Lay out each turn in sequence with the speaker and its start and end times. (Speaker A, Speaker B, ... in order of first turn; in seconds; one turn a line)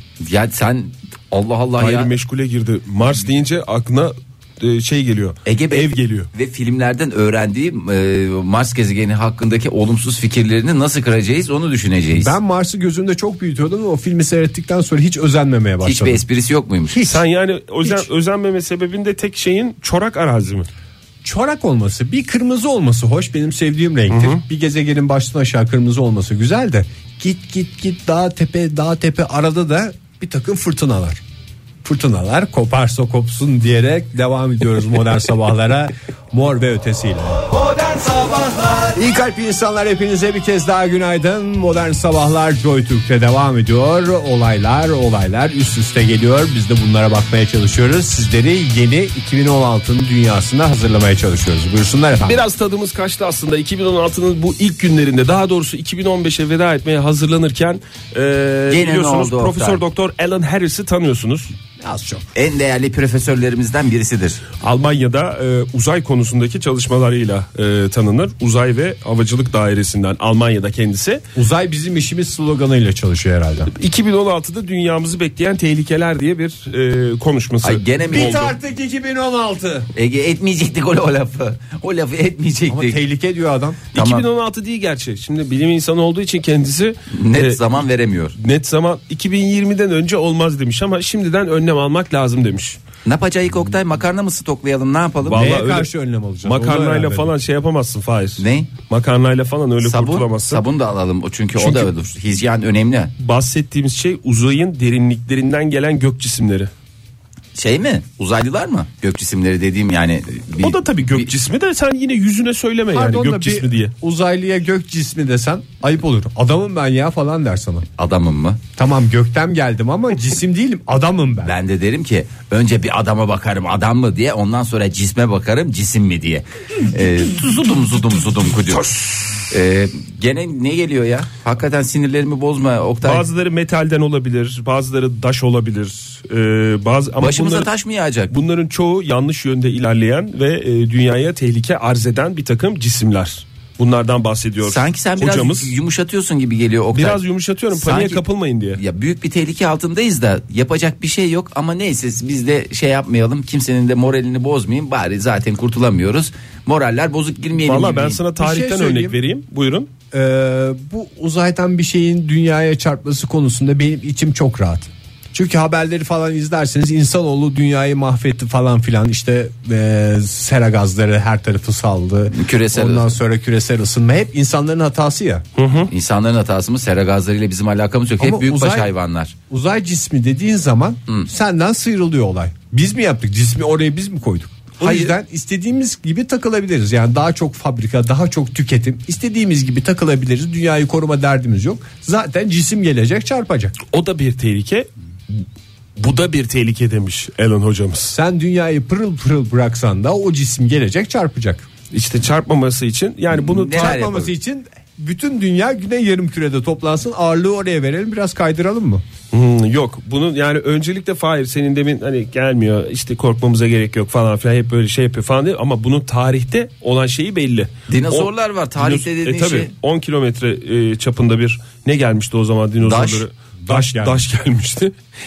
Speaker A: 0.2-2.1
Speaker B: 1.8-6.3
Speaker A: 5.5-12.3
Speaker C: 12.2-16.2
Speaker A: 15.8-17.0
Speaker C: 16.9-17.2
Speaker B: 17.0-20.7
Speaker C: 21.2-31.2
Speaker B: 24.1-24.4
Speaker C: 31.8-37.5
Speaker C: 38.7-52.4
Speaker B: 52.2-61.5
Speaker A: 58.7-59.8
Speaker C: 61.8-62.3
Speaker A: 62.3-64.4
Speaker B: 64.6-71.2
Speaker C: 71.3-73.7
Speaker B: 73.7-78.5
Speaker A: 77.6-78.5
Speaker C: 78.1-79.9
Speaker A: 79.9-83.0
Speaker C: 82.7-83.8
Speaker B: 83.9-87.6
Speaker A: 84.0-84.3
Speaker A: 87.1-88.3
Speaker B: 88.4-92.8
Speaker A: 93.0-95.5
Speaker B: 95.2-95.9
Speaker C: 95.3-97.3
Speaker B: 96.4-100.6
Speaker A: 98.4-98.7
Speaker A: 99.8-103.1
Speaker B: 103.2-106.7
Speaker A: 107.5-111.3
Speaker B: 110.6-113.9
Speaker C: 112.9-117.9
Speaker A: 118.0-118.6
Speaker C: 118.8-121.5
Speaker A: 121.5-133.3
Speaker B: 133.0-137.7
Speaker A: 137.2-138.3
Speaker B: 138.3-145.7
Speaker A: 144.6-148.2
Speaker B: 146.9-148.8
Speaker A: 148.7-158.2
Speaker B: 157.6-159.9
Speaker C: 158.4-159.2
Speaker C: 160.1-175.4
Speaker A: 172.3-173.2
Speaker B: 175.6-175.9
Speaker A: 175.9-179.3
Speaker C: 178.2-178.9
Speaker C: 179.5-193.7
Speaker B: 184.8-185.1
Speaker B: 193.9-195.4
Speaker B: 196.0-198.1
Speaker C: 198.1-201.7
Speaker B: 201.9-204.1
Speaker A: 203.3-204.3
Speaker C: 203.7-209.0
Speaker B: 209.3-224.9
Speaker A: 217.9-219.7
Speaker A: 222.8-223.3
Speaker C: 223.6-224.3